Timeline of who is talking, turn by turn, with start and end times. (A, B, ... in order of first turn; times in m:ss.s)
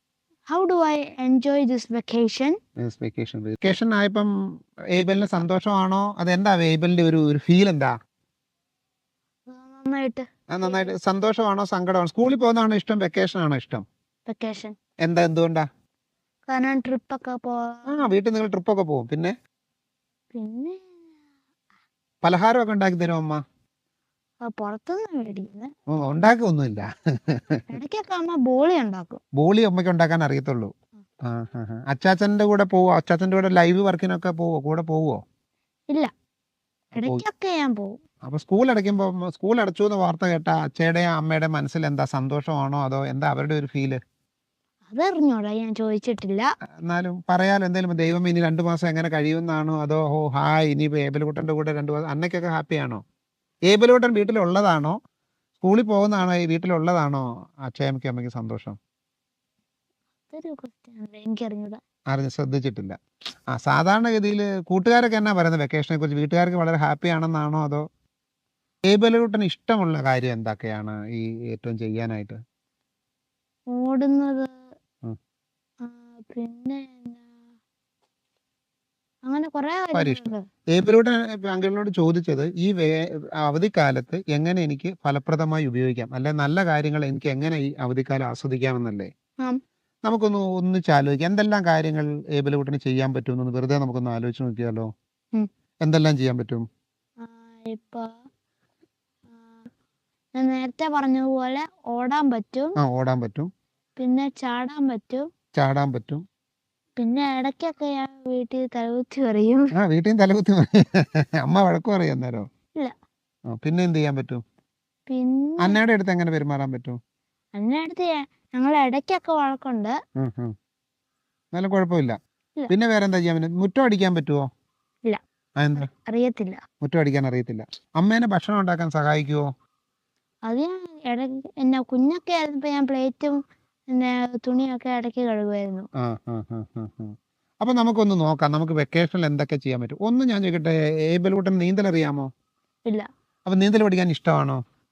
0:00.5-0:02.6 A
0:02.8-0:04.3 B
0:04.9-0:07.9 B
0:09.5-0:10.9 A
0:10.5-0:13.8 B
0:14.3-0:14.8 A
0:15.0-0:15.7 B
0:16.5-0:17.9 A
0:17.9-0:19.4 B
0:20.3-0:20.9 A
0:22.2-0:23.4 B
0:24.4-0:25.7 A
0:25.9-0:27.7 B
0:27.7-0:29.2 A
0:29.4-0:30.7 B
0:31.2-0:35.2 B
0:36.9-0:37.2 B
0:36.9-0:38.0 A
0:38.2-0:44.0 B
0:44.9-0:46.5 A
0:46.8-0:53.0 B
0:53.7-0:55.0 B
0:55.6-0:58.8 B
1:00.3-1:01.8 A
1:02.1-1:03.0 B
1:03.5-1:07.8 B
1:08.9-1:12.4 B
1:13.7-1:14.5 A
1:15.8-1:17.3 A
1:19.2-1:20.4 A
1:19.9-1:29.1 B
1:30.0-1:34.9 B
1:35.8-1:36.6 B
1:37.2-1:38.1 A
1:40.3-1:42.8 A
1:42.8-1:43.5 B
1:44.0-1:45.3 A
1:45.6-1:46.2 B
1:47.0-1:49.7 A
1:49.8-1:52.5 B
1:53.5-1:54.4 B
1:55.1-1:55.8 A
1:55.6-1:57.0 B
1:57.6-1:59.9 A
2:00.2-2:00.5 B
2:01.5-2:02.2 B
2:02.7-2:04.4 B
2:05.6-2:05.9 B
2:05.8-2:06.6 A
2:06.8-2:09.4 B
2:10.5-2:13.4 A
2:13.9-2:15.9 A
2:16.0-2:22.3 B
2:23.4-2:24.6 B